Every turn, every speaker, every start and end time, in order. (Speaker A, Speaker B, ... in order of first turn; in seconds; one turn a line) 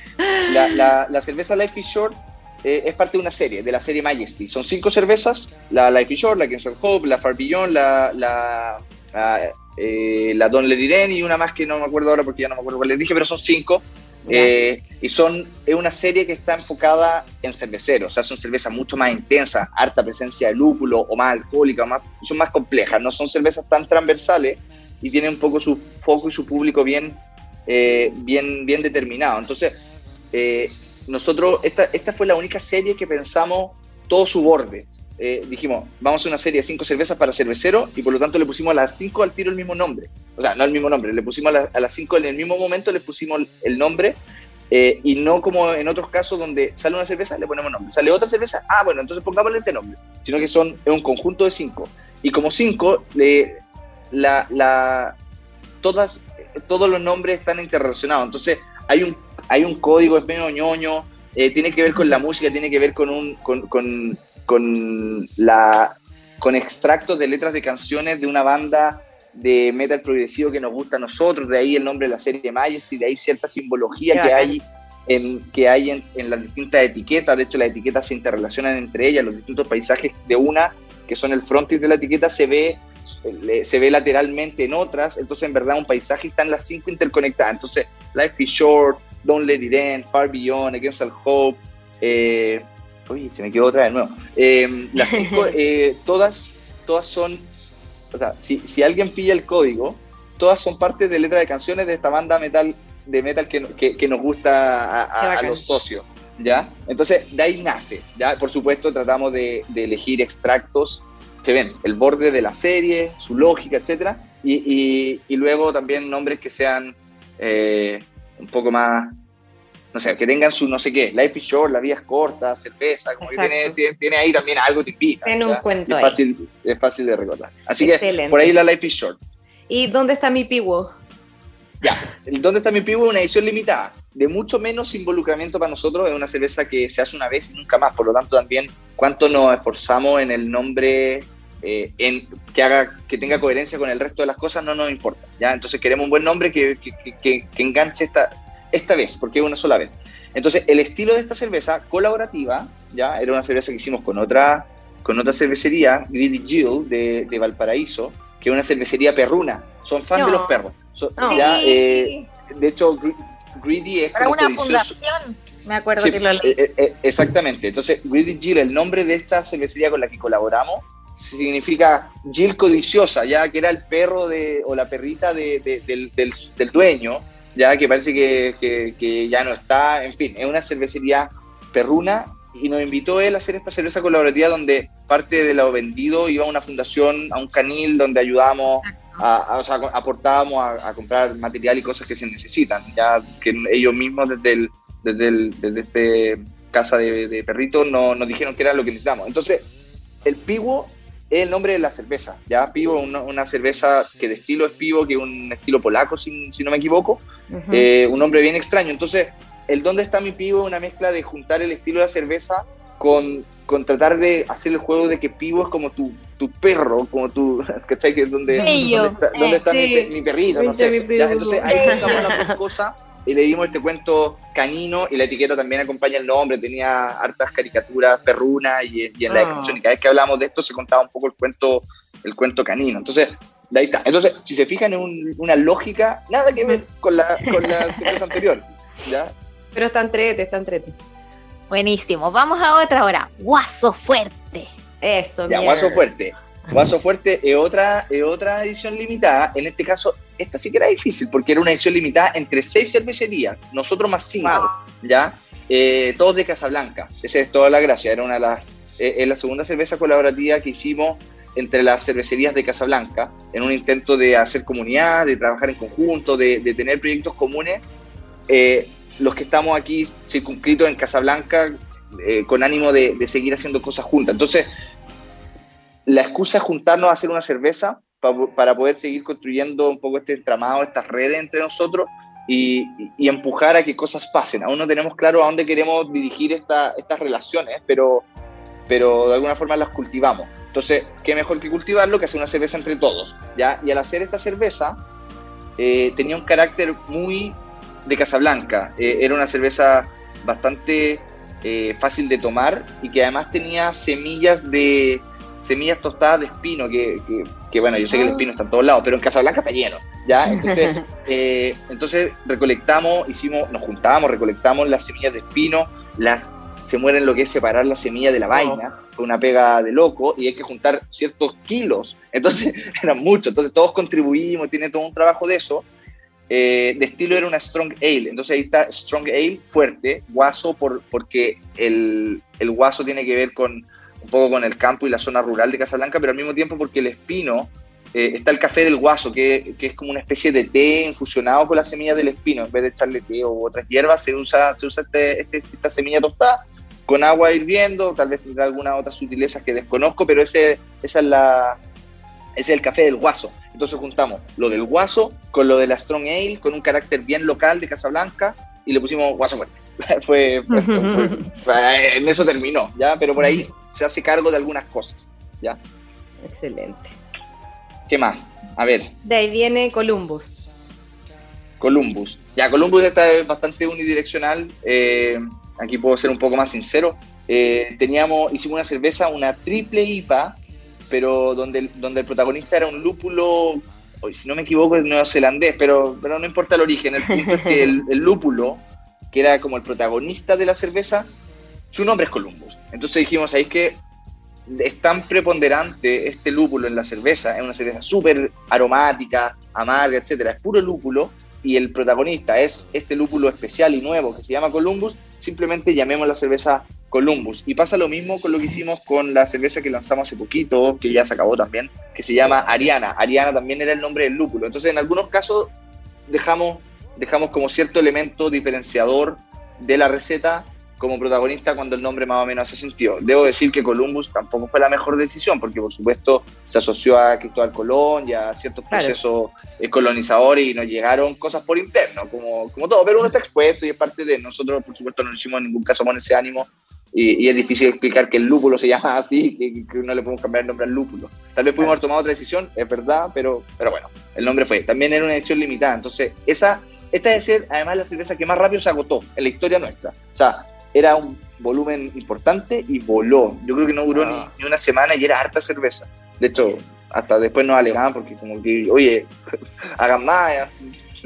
Speaker A: 0.2-0.5
Speaker B: 0.5-29.8
Speaker B: 30.3-55.2
Speaker B: 55.8-97.5
Speaker A: 74.1-74.5
Speaker A: 95.0-95.5
Speaker B: 98.1-119.2
Speaker A: 105.2-105.6
Speaker B: 119.9-129.2
Speaker A: 123.2-123.8
Speaker A: 125.2-126.2
Speaker A: 127.8-128.5
Speaker A: 129.7-130.9
Speaker B: 131.8-164.9
Speaker A: 160.2-160.5
Speaker A: 161.2-161.6
Speaker C: 161.3-162.1
Speaker C: 164.1-166.2
Speaker A: 165.8-166.5
Speaker B: 166.0-199.7
Speaker B: 200.2-239.3
Speaker A: 207.5-207.9
Speaker A: 218.5-218.9
Speaker C: 218.6-219.6
Speaker A: 219.7-222.6
Speaker C: 221.7-222.3
Speaker A: 229.3-229.8
Speaker A: 237.5-238.1
Speaker A: 239.8-240.9
Speaker C: 241.7-244.7
Speaker A: 245.0-246.0
Speaker B: 245.5-267.8
Speaker A: 254.4-254.7
Speaker B: 268.5-274.7
Speaker B: 276.1-288.3
Speaker B: 288.9-295.0
Speaker B: 295.8-325.9
Speaker A: 308.1-308.5
Speaker A: 310.5-311.1
Speaker A: 318.5-318.8
Speaker B: 326.5-351.8
Speaker B: 352.6-365.8
Speaker A: 360.7-361.6
Speaker A: 363.4-363.7
Speaker A: 366.4-367.2
Speaker B: 368.1-369.1
Speaker A: 369.2-370.9
Speaker B: 371.8-380.6
Speaker B: 381.1-391.3
Speaker A: 387.5-387.8
Speaker B: 391.9-394.0
Speaker B: 394.7-415.7
Speaker B: 416.3-459.3
Speaker A: 454.1-454.5
Speaker B: 460.0-460.7